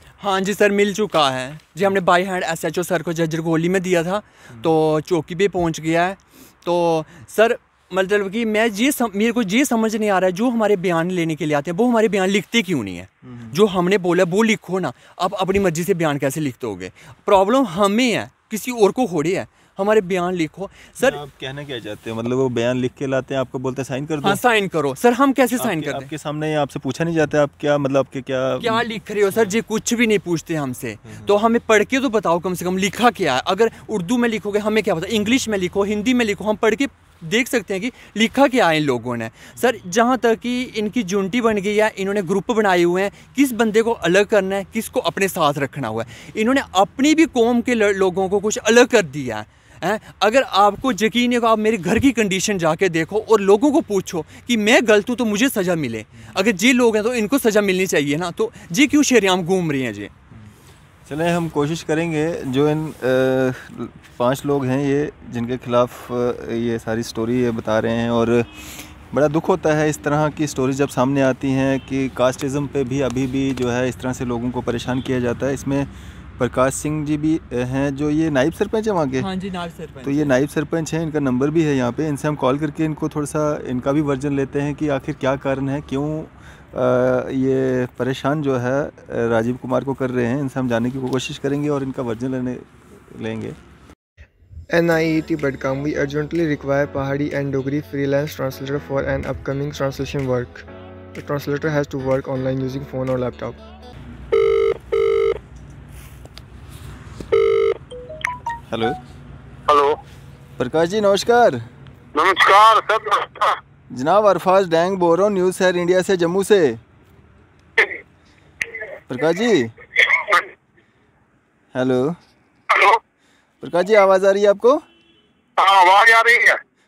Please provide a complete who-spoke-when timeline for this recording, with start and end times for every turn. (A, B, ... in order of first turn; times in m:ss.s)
0:00.2-0:21.2 A
0:13.2-0:13.6 B
0:21.0-0:24.4 B
0:24.2-0:26.1 A
0:25.6-0:29.6 B
0:28.6-1:00.1 A
0:31.0-0:31.3 B
1:01.1-1:19.3 B
1:19.2-1:20.3 A
1:20.0-1:33.6 B
1:34.7-1:43.6 C
1:48.7-1:49.0 B
1:49.7-1:50.0 D
1:50.6-1:51.6 B
1:52.1-1:53.6 D
1:53.9-1:56.8 B
1:59.1-1:59.7 B
2:00.1-2:00.5 D
2:01.7-2:02.2 B
2:02.7-2:03.0 D
2:03.6-2:04.8 B
2:05.6-2:06.6 D